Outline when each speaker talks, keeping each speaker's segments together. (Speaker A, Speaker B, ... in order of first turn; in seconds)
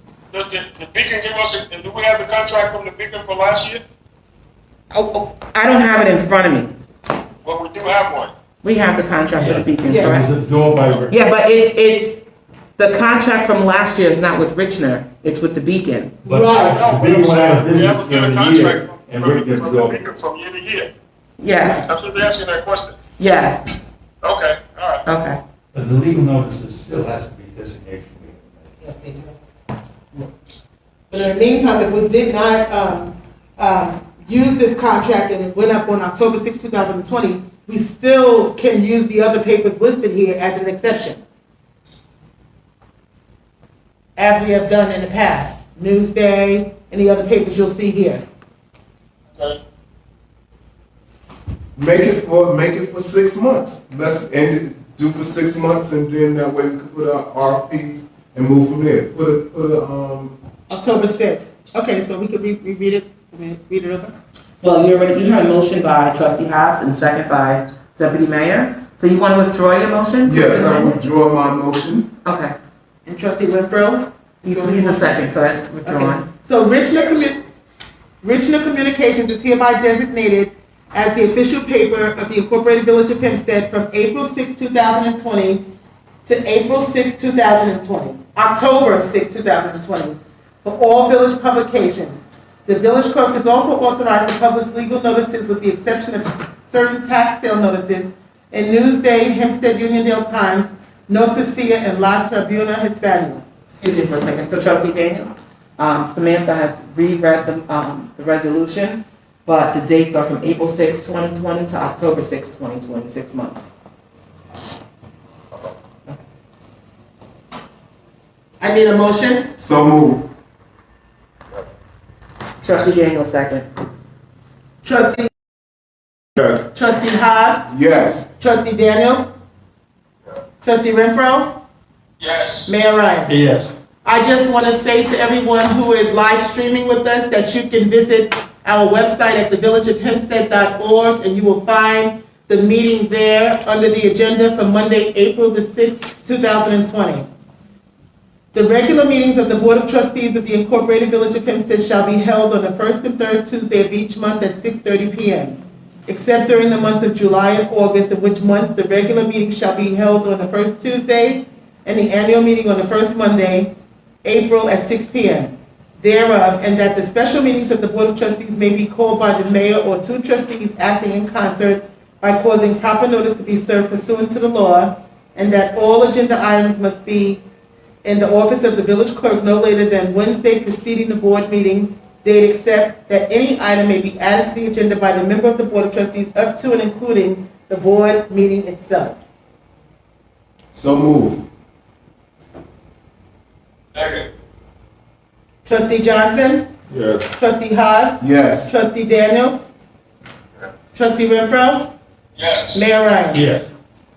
Speaker A: 0.3-3.8, 7.5-8.3, 16.6-20.9, 21.7-23.0, 24.2-25.0, 132.2-132.7, 193.9-194.3, 202.4-202.8
Speaker B: 4.9-6.7, 8.6-10.3, 11.1-12.2, 12.8-16.2, 21.4-21.9, 23.2-23.8, 25.1-25.4, 64.6-71.0, 72.2-72.5, 74.4-76.3, 103.7-113.7, 122.6-123.7
Speaker C: 9.4-11.2, 16.2-20.0, 25.7-28.6, 133.3-133.7, 196.9-197.2, 203.3-203.7
Speaker D: 9.9-10.3, 16.3-16.8, 28.8-29.4, 31.1-41.2, 44.2-48.2, 60.7-64.2, 70.6-70.9, 73.1-75.2, 75.8-77.4, 78.2-85.6, 86.2-103.5, 118.6-119.5, 124.8-125.3, 126.7-127.7, 128.4-129.3, 130.6-131.6, 132.7-133.4, 134.0-147.3, 148.5-163.7, 164.2-177.4, 178.0-189.2, 195.7-196.7, 197.3-199.7, 200.9-201.9, 202.7-203.5
Speaker E: 51.8-60.4, 70.2-72.1, 119.6-120.3, 127.7-128.3, 190.7-191.4, 198.2-198.7